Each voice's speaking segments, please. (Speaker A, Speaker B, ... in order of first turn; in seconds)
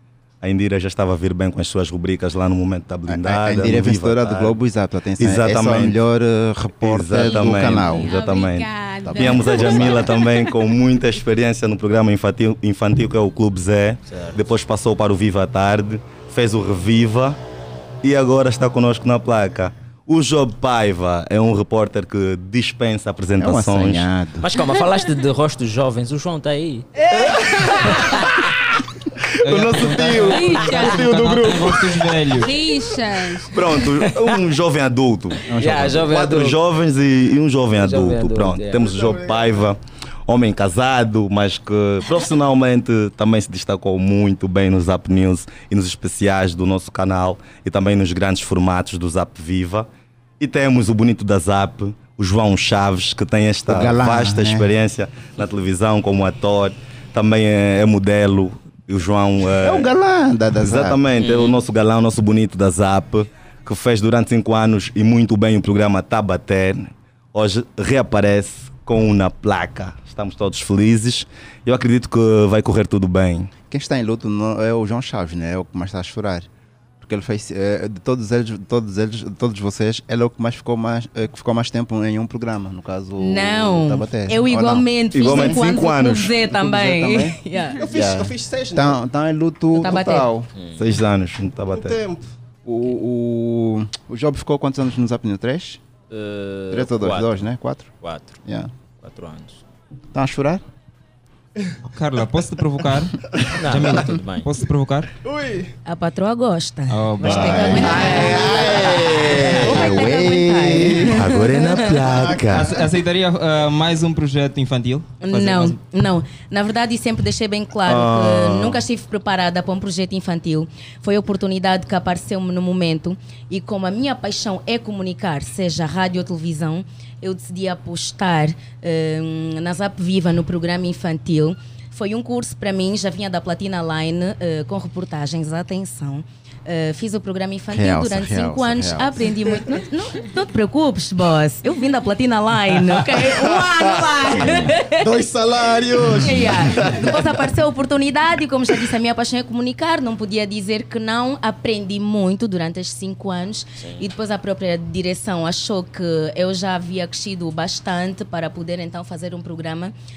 Speaker A: 0.4-4.6, 5.2-6.0, 6.8-17.4, 18.0-24.1, 29.4-31.8, 33.5-49.9, 50.4-59.9, 60.6-73.5, 85.1-86.3, 90.8-92.0, 111.2-112.7, 117.8-118.8
Speaker B: 3.1-8.1, 9.1-9.4, 23.4-24.5, 35.5-35.9, 53.6-54.7, 59.6-61.0, 73.6-76.5, 77.0-85.7, 86.4-90.5, 92.6-95.8, 96.7-97.9, 98.4-98.7, 100.1-100.6, 107.2-111.1, 137.7-139.2
Speaker C: 7.8-10.4, 30.3-31.0, 32.4-33.5
Speaker D: 14.1-14.5, 24.4-26.9, 27.7-28.5, 34.0-34.2, 35.5-36.6, 37.8-38.9, 61.1-61.6, 90.5-90.9, 96.1-97.5, 98.0-98.4, 99.0-99.6, 103.6-104.5, 109.1-109.4, 153.8-154.1
Speaker E: 29.4-32.5, 101.9-105.1, 106.9-107.9, 112.5-115.8
Speaker F: 38.8-39.7, 87.8-89.0, 91.7-92.2, 105.2-105.7, 112.0-112.8, 145.0-147.1
Speaker G: 83.2-87.9, 89.7-90.3, 105.8-112.1, 115.2-145.1, 146.2-159.9